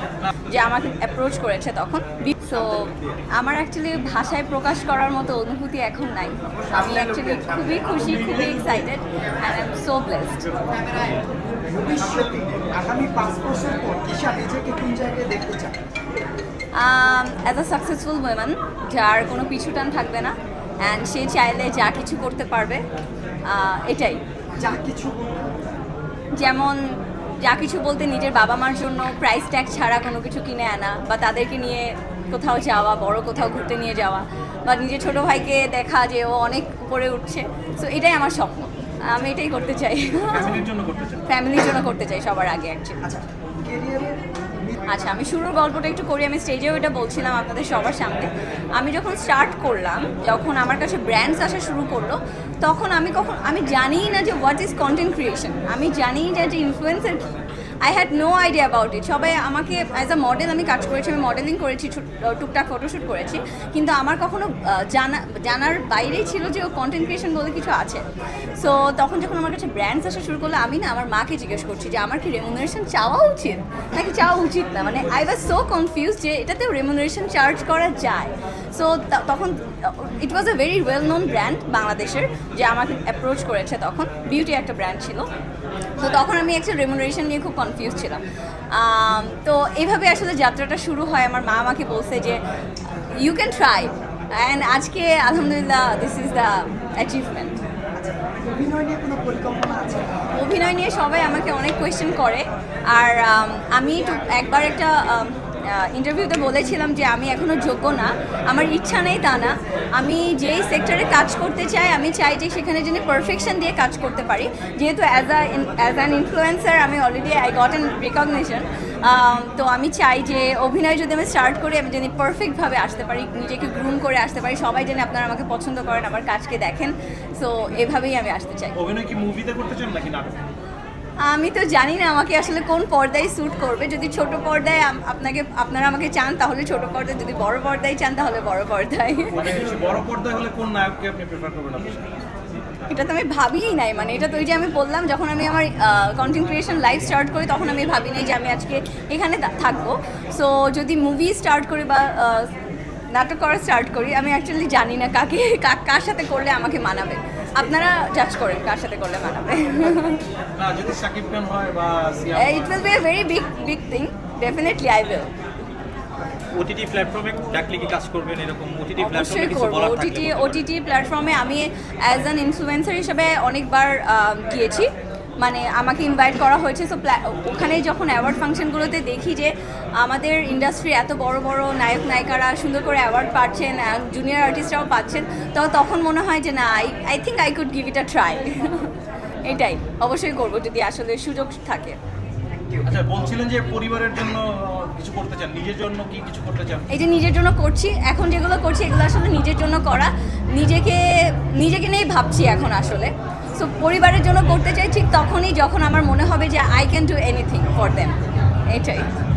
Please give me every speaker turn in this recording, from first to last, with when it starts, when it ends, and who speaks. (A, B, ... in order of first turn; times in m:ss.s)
0:00.5-0:10.6 A
0:08.0-0:08.8 B
0:11.7-0:15.8 C
0:16.8-0:22.8 A
0:23.5-0:24.2 A
0:24.6-0:25.6 C
0:26.4-0:26.8 A
0:27.4-0:40.6 A
0:40.3-0:41.2 B
0:41.3-0:43.0 A
0:43.0-0:45.1 C
0:44.9-0:57.3 A
0:57.8-1:08.0 A
1:08.6-1:25.3 A
1:26.0-1:32.4 A
1:33.2-1:37.6 A
1:37.9-1:40.3 C
1:40.3-2:08.8 A
2:08.8-2:10.5 B
2:11.2-2:19.4 A
2:19.3-2:22.2 B
2:22.9-2:32.5 A
2:33.1-2:40.2 A
2:40.6-2:42.8 B
2:42.4-2:45.3 A
2:46.5-2:50.6 D
2:49.0-2:54.9 A
2:55.4-3:08.9 A
3:09.4-3:12.0 A
3:12.8-3:16.9 B
3:16.9-3:28.2 A
3:28.7-3:29.1 A